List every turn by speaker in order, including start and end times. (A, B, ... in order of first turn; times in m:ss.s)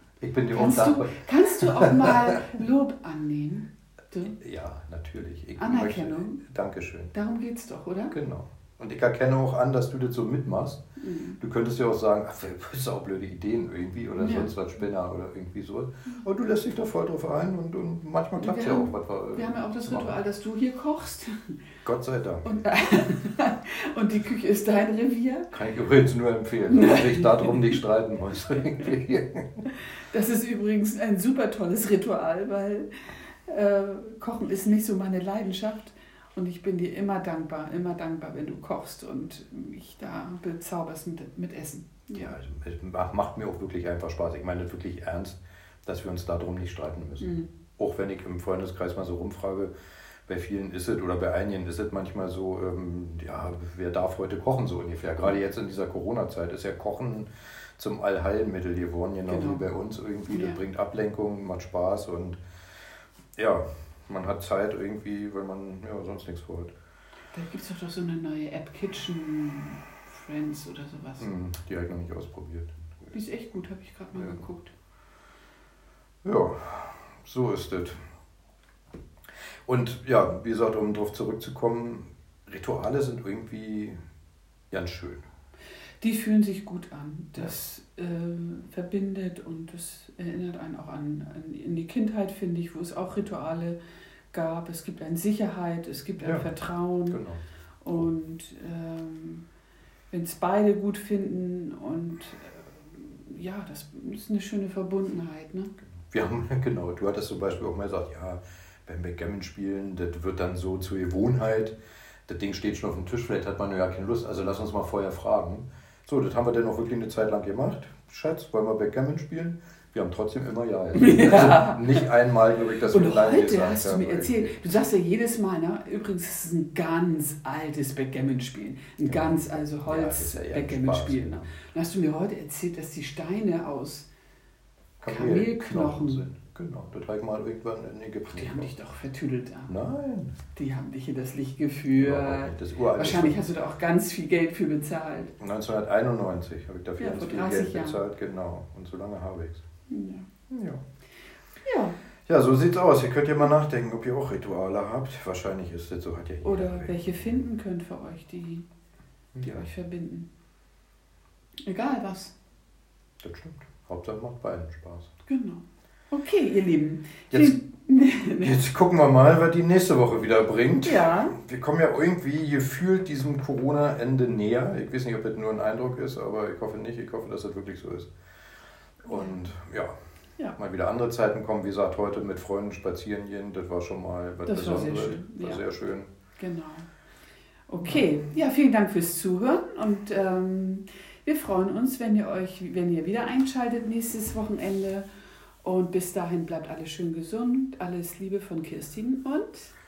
0:00.2-0:02.3 A
0:00.5-0:04.3 B
0:04.3-0:07.1 A
0:05.6-0:06.4 B
0:07.1-0:08.2 B
0:08.1-0:10.8 A
0:11.0-0:11.4 B
0:11.4-0:20.2 A
0:14.2-0:14.5 B
0:18.4-0:21.5 B
0:21.8-0:22.5 A
0:22.4-0:25.5 B
0:25.5-0:29.6 A
0:26.7-0:27.8 B
0:30.0-0:42.3 B
0:42.1-0:49.7 A
0:47.2-0:47.5 B
0:50.3-1:02.4 A
0:59.2-0:59.6 B
1:00.3-1:00.6 B
1:03.4-1:06.7 A
1:07.3-1:11.4 B
1:11.2-1:13.1 A
1:13.1-1:14.7 B
1:14.1-1:14.4 A
1:16.2-1:18.0 A
1:19.7-1:24.0 A
1:24.7-1:25.2 A
1:26.0-1:33.8 B
1:34.3-1:37.2 B
1:36.2-1:36.5 A
1:37.1-1:37.4 A
1:37.8-1:39.4 B
1:40.1-1:45.7 B
1:45.9-1:51.7 A
1:52.3-2:04.5 A
2:00.9-2:02.1 B
2:02.9-2:14.1 B
2:09.0-2:11.5 A
2:15.0-2:18.7 A
2:15.0-2:16.2 B
2:18.2-2:19.7 B
2:19.7-2:20.4 A
2:20.5-2:25.3 B
2:21.9-2:23.4 A
2:25.4-2:29.6 A
2:27.0-2:28.0 B
2:29.9-2:30.3 B
2:30.5-2:30.8 A
2:31.6-2:32.0 B
2:32.3-2:37.4 A
2:36.4-2:38.6 B
2:39.3-2:39.7 A
2:39.4-2:40.3 B
2:41.6-2:42.3 B
2:43.2-2:45.1 A
2:45.2-2:48.6 B
2:47.3-2:47.6 A
2:48.4-2:58.1 A
2:50.8-2:51.4 B
2:59.0-2:59.9 A
2:59.1-2:59.4 B
3:00.5-3:06.1 A
3:04.4-3:05.6 B
3:06.4-3:06.9 B
3:07.7-3:15.0 B
3:15.6-3:19.7 B